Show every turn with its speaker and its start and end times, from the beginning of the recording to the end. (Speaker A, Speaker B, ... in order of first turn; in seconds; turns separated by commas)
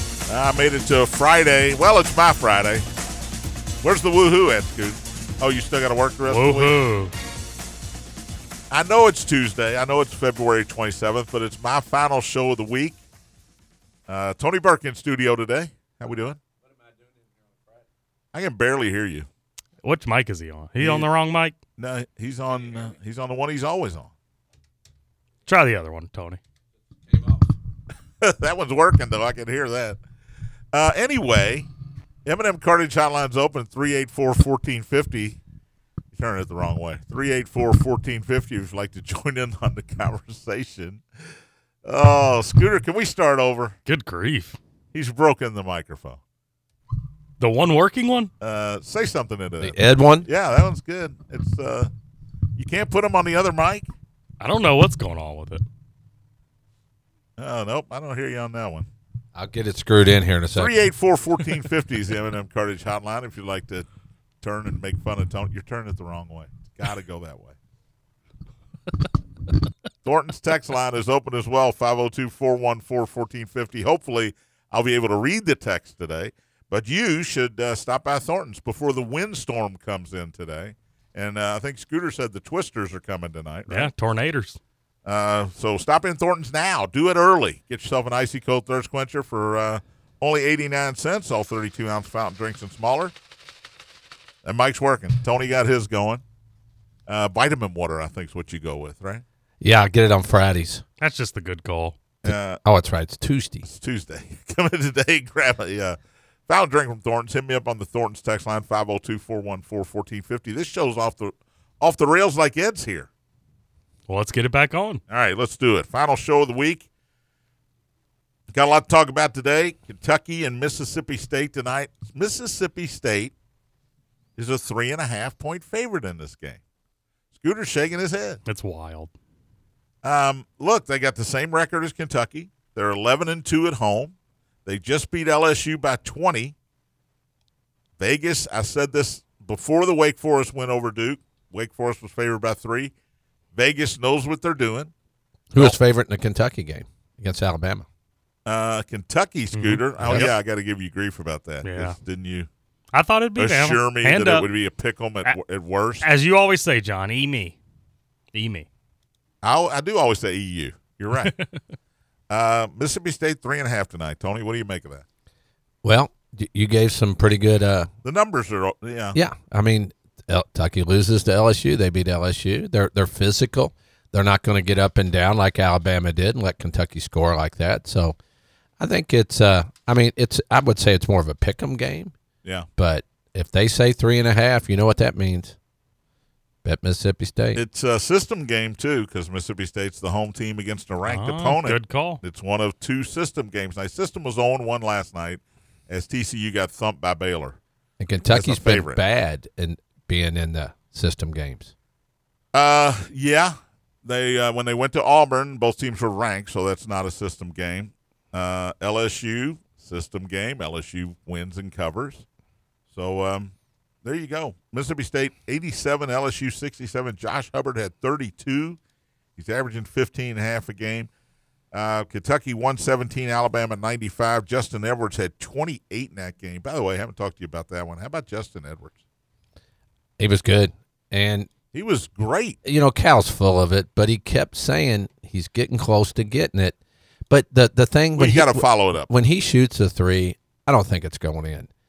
Speaker A: 0.3-2.9, Speaker A: 3.8-6.8, Speaker B: 6.3-7.1, Speaker A: 8.7-13.0, Speaker A: 14.1-16.4, Speaker A: 18.3-19.3, Speaker B: 19.8-21.5, Speaker A: 20.8-21.1, Speaker A: 21.8-24.1, Speaker B: 25.4-26.4, Speaker A: 28.2-30.0, Speaker A: 30.7-31.7, Speaker A: 32.2-35.4, Speaker A: 36.1-41.0, Speaker A: 41.8-43.8, Speaker B: 43.9-44.6, Speaker A: 44.9-46.2, Speaker B: 47.4-48.3, Speaker A: 48.4-51.9, Speaker C: 49.6-50.3, Speaker A: 52.5-53.9, Speaker B: 54.4-55.6, Speaker A: 57.4-58.9, Speaker C: 59.3-60.7, Speaker A: 60.5-63.9, Speaker A: 64.4-67.5, Speaker A: 70.0-83.9, Speaker B: 83.7-84.6, Speaker A: 85.0-93.1, Speaker A: 94.4-96.2, Speaker A: 97.1-99.2, Speaker C: 99.6-100.8, Speaker B: 101.0-102.0, Speaker A: 102.2-102.6, Speaker C: 102.2-103.7, Speaker A: 103.6-113.1, Speaker B: 114.1-115.0, Speaker A: 115.1-116.8, Speaker A: 118.5-123.3, Speaker A: 124.4-126.6, Speaker A: 127.3-128.4, Speaker B: 128.5-129.1, Speaker A: 130.0-136.5, Speaker A: 138.0-142.9, Speaker A: 143.5-144.9, Speaker C: 145.5-147.8, Speaker A: 148.4-152.5, Speaker B: 149.5-149.8, Speaker B: 151.6-152.0, Speaker B: 152.9-154.5, Speaker A: 153.3-156.0, Speaker B: 156.0-157.6, Speaker B: 158.3-158.7, Speaker A: 159.4-161.3, Speaker B: 161.2-161.4, Speaker A: 162.3-165.0, Speaker C: 165.8-167.9, Speaker A: 168.0-169.2, Speaker C: 169.1-178.2, Speaker C: 178.8-182.1, Speaker C: 182.8-185.6, Speaker C: 186.6-187.6, Speaker A: 187.5-197.6, Speaker B: 191.1-192.2, Speaker C: 198.0-201.7, Speaker A: 198.3-199.0, Speaker A: 202.5-212.2, Speaker A: 212.9-218.8, Speaker A: 219.3-221.1, Speaker A: 221.7-229.0, Speaker C: 230.2-231.5, Speaker A: 231.7-232.6, Speaker C: 232.6-236.8, Speaker C: 237.3-241.7, Speaker A: 238.2-239.1